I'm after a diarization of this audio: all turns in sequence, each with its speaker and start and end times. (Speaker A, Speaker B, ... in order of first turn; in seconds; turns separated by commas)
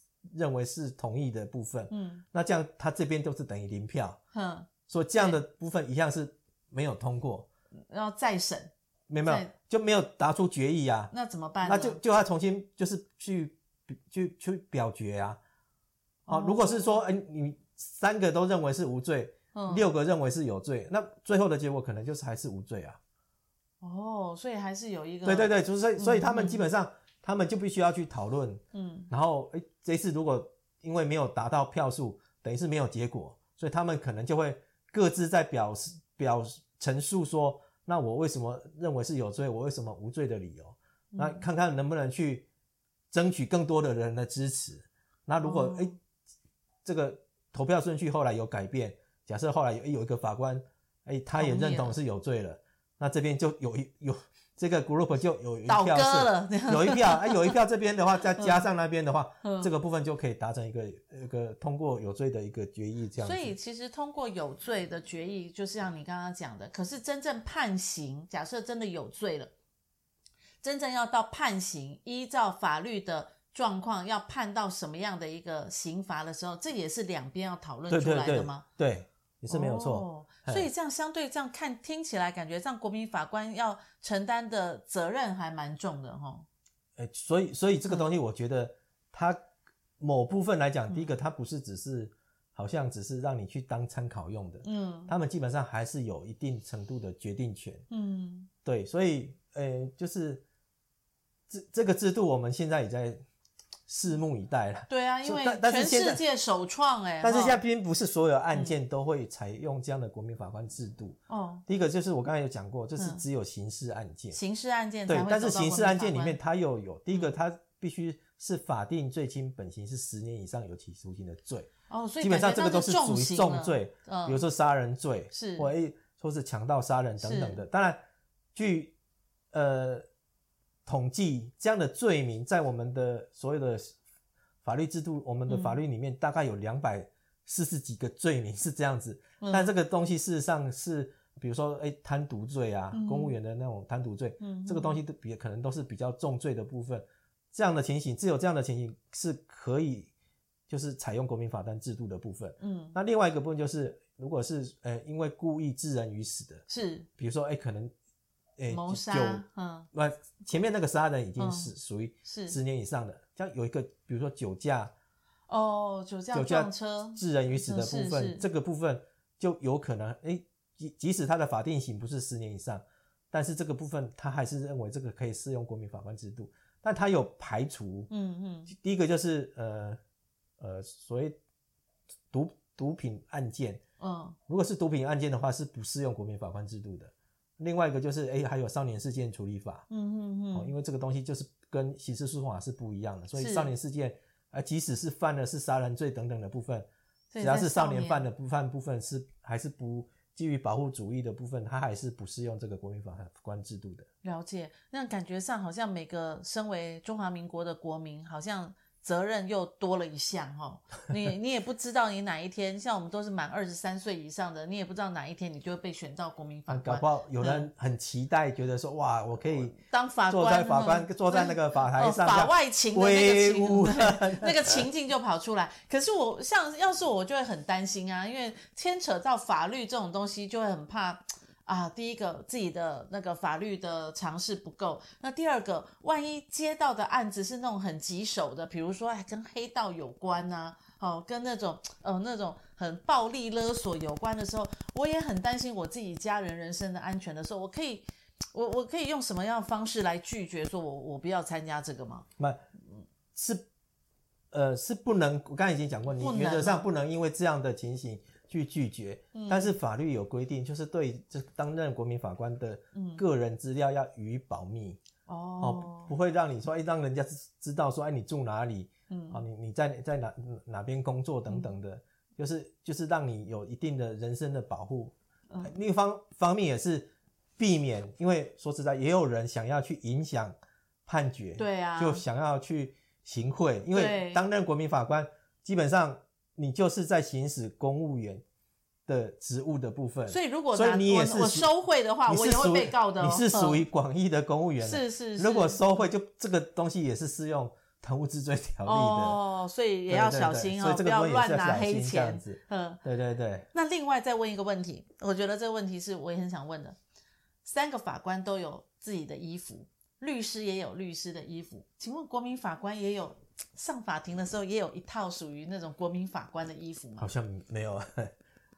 Speaker A: 0.3-4.2, Speaker B: 1.9-2.2, Speaker B: 4.3-5.4, Speaker A: 4.9-7.5, Speaker B: 7.9-8.7, Speaker A: 9.1-11.1, Speaker B: 9.2-9.5, Speaker B: 11.1-12.0, Speaker A: 11.6-15.4, Speaker B: 16.2-17.0, Speaker A: 16.3-23.0, Speaker B: 19.5-19.9, Speaker B: 23.8-26.7, Speaker A: 25.2-42.5, Speaker B: 28.7-29.1, Speaker B: 41.1-41.4, Speaker A: 43.1-45.9, Speaker B: 45.4-45.9, Speaker A: 46.8-63.5, Speaker B: 51.4-52.0, Speaker B: 55.6-57.5, Speaker B: 58.4-58.6, Speaker B: 59.4-59.7, Speaker B: 63.2-69.5, Speaker B: 70.6-78.6, Speaker A: 77.9-80.7, Speaker B: 79.5-86.5, Speaker A: 87.0-89.4, Speaker A: 90.0-97.8, Speaker B: 94.6-95.1, Speaker B: 97.9-98.5, Speaker A: 98.6-100.4, Speaker A: 101.5-103.2, Speaker A: 103.9-106.2, Speaker B: 104.9-107.6, Speaker A: 107.2-114.4, Speaker B: 108.5-108.8, Speaker B: 111.3-111.6, Speaker B: 113.0-113.2, Speaker B: 114.3-116.4, Speaker A: 115.1-128.0, Speaker B: 121.9-124.4, Speaker B: 125.3-125.7, Speaker B: 127.2-127.6, Speaker A: 128.5-128.9, Speaker A: 129.5-130.0, Speaker A: 130.8-133.9, Speaker A: 134.6-150.1, Speaker B: 135.5-135.8, Speaker B: 139.4-139.7, Speaker B: 142.9-143.3, Speaker B: 144.4-145.0, Speaker A: 150.7-156.6, Speaker B: 152.6-153.0, Speaker B: 156.7-157.1, Speaker A: 157.2-157.9, Speaker A: 158.6-164.9, Speaker B: 158.7-159.9, Speaker B: 161.4-161.7, Speaker B: 162.2-162.6, Speaker B: 165.5-168.4, Speaker A: 166.3-178.1, Speaker B: 178.1-178.7, Speaker A: 178.7-180.0, Speaker A: 180.6-181.4, Speaker A: 182.3-183.8, Speaker B: 184.0-184.4, Speaker A: 184.5-189.9, Speaker B: 189.9-190.7, Speaker A: 190.5-196.8, Speaker B: 193.3-193.7, Speaker B: 197.3-198.3, Speaker A: 197.4-204.1, Speaker B: 204.2-217.7, Speaker A: 216.7-219.8, Speaker B: 219.8-252.2, Speaker A: 220.3-224.8, Speaker A: 253.3-253.7, Speaker A: 254.5-265.0, Speaker B: 256.2-256.9, Speaker B: 259.3-259.7, Speaker B: 262.9-263.2, Speaker B: 265.3-266.1, Speaker A: 265.6-280.5, Speaker B: 269.1-269.4, Speaker B: 271.5-271.7, Speaker A: 281.1-288.4, Speaker B: 281.6-282.2, Speaker B: 283.9-284.4, Speaker A: 289.1-291.7, Speaker B: 290.3-293.9, Speaker A: 292.3-299.4, Speaker B: 294.8-295.8, Speaker B: 298.9-303.0, Speaker A: 300.1-303.7, Speaker B: 303.7-307.0, Speaker B: 307.6-317.3, Speaker A: 317.2-318.3